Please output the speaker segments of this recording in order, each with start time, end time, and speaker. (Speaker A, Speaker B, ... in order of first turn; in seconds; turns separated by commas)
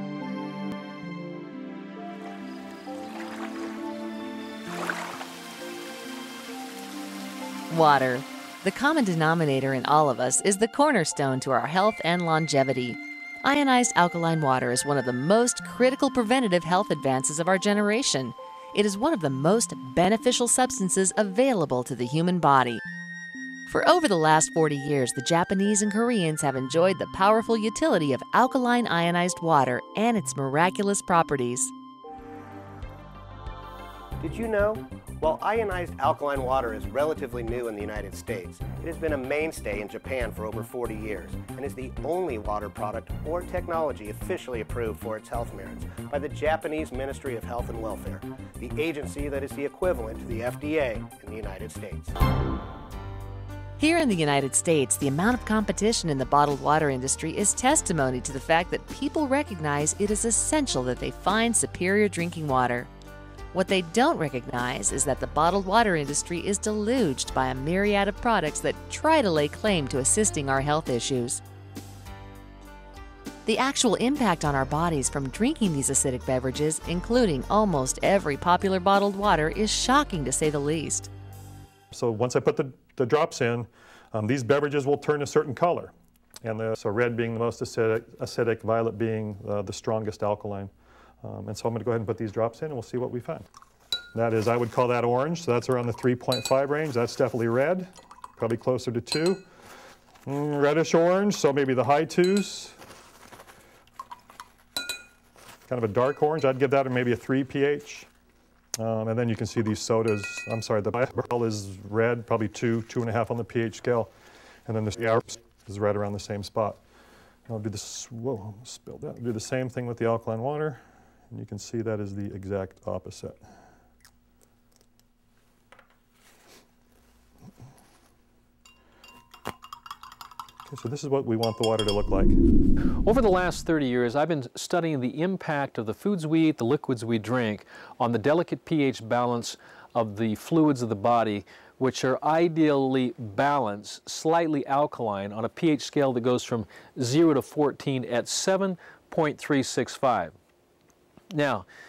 Speaker A: 7.7-22.8, Speaker B: 10.3-11.1, Speaker B: 13.8-14.8, Speaker B: 15.8-16.5, Speaker B: 17.2-17.7, Speaker B: 18.7-20.9, Speaker A: 23.7-31.6, Speaker B: 24.0-31.6, Speaker C: 34.2-52.1, Speaker A: 53.8-62.9, Speaker B: 54.3-58.1, Speaker B: 58.6-62.4, Speaker A: 63.5-71.4, Speaker B: 64.7-66.7, Speaker B: 67.7-70.6, Speaker A: 73.4-81.1, Speaker B: 74.4-75.1, Speaker B: 78.4-79.1, Speaker D: 81.9-93.5, Speaker D: 94.1-99.4, Speaker D: 100.2-102.8, Speaker D: 105.7-108.1, Speaker D: 108.8-114.1, Speaker D: 114.7-116.8, Speaker D: 117.5-123.4, Speaker D: 130.7-132.4, Speaker B: 133.0-150.3, Speaker B: 151.3-151.7